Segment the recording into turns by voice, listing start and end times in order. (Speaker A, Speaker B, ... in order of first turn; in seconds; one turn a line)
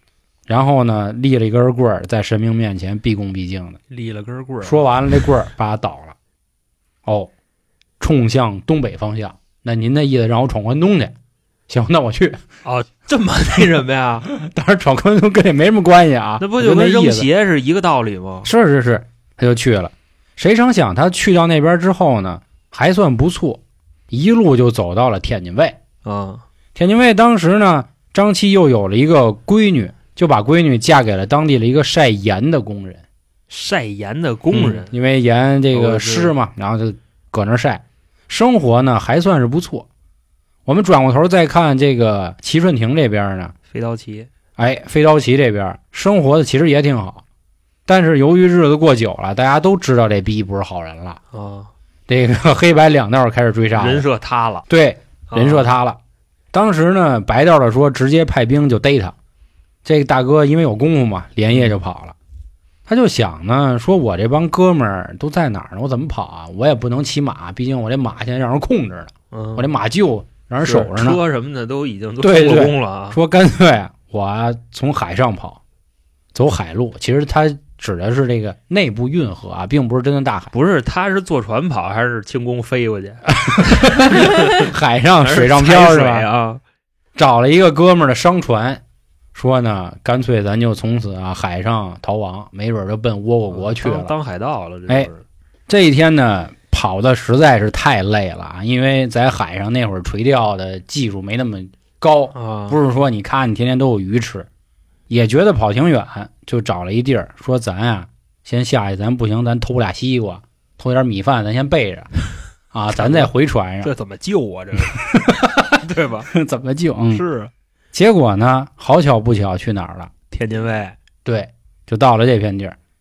Speaker A: 0.5-3.8
Speaker B: 3.9-4.8
Speaker A: 4.6-6.1
Speaker A: 7.0-7.3
Speaker A: 8.0-11.1
Speaker A: 11.7-12.4
Speaker B: 12.6-14.3
Speaker A: 14.3-17.3
Speaker B: 16.4-18.5
Speaker A: 18.4-25.8
Speaker B: 26.0-26.4
Speaker A: 26.7-33.0
Speaker B: 33.5-35.0
Speaker A: 34.5-39.9
Speaker B: 35.7-36.3
Speaker A: 40.6-43.5
Speaker B: 43.7-44.3
Speaker A: 44.6-47.2
Speaker A: 47.9-51.2
Speaker B: 51.3-51.7
Speaker A: 52.1-54.0
Speaker B: 53.8-54.6
Speaker A: 54.7-56.0
Speaker B: 55.3-55.7
Speaker A: 56.5-59.1
Speaker A: 59.8-62.1
Speaker B: 61.5-61.8
Speaker A: 62.9-71.2
Speaker B: 69.3-69.7
Speaker B: 70.6-73.2
Speaker A: 72.2-75.6
Speaker A: 76.3-80.5
Speaker B: 80.5-84.7
Speaker A: 83.4-86.3
Speaker B: 85.2-86.6
Speaker A: 87.2-88.8
Speaker A: 89.3-94.1
Speaker B: 93.5-95.2
Speaker A: 95.7-104.5
Speaker B: 102.3-102.8
Speaker A: 105.1-112.1
Speaker A: 112.7-113.9
Speaker B: 112.9-113.3
Speaker B: 113.8-115.1
Speaker A: 114.9-115.8
Speaker B: 115.7-116.3
Speaker A: 116.3-117.2
Speaker B: 117.1-117.5
Speaker A: 117.9-120.1
Speaker B: 120.3-121.0
Speaker A: 121.2-122.8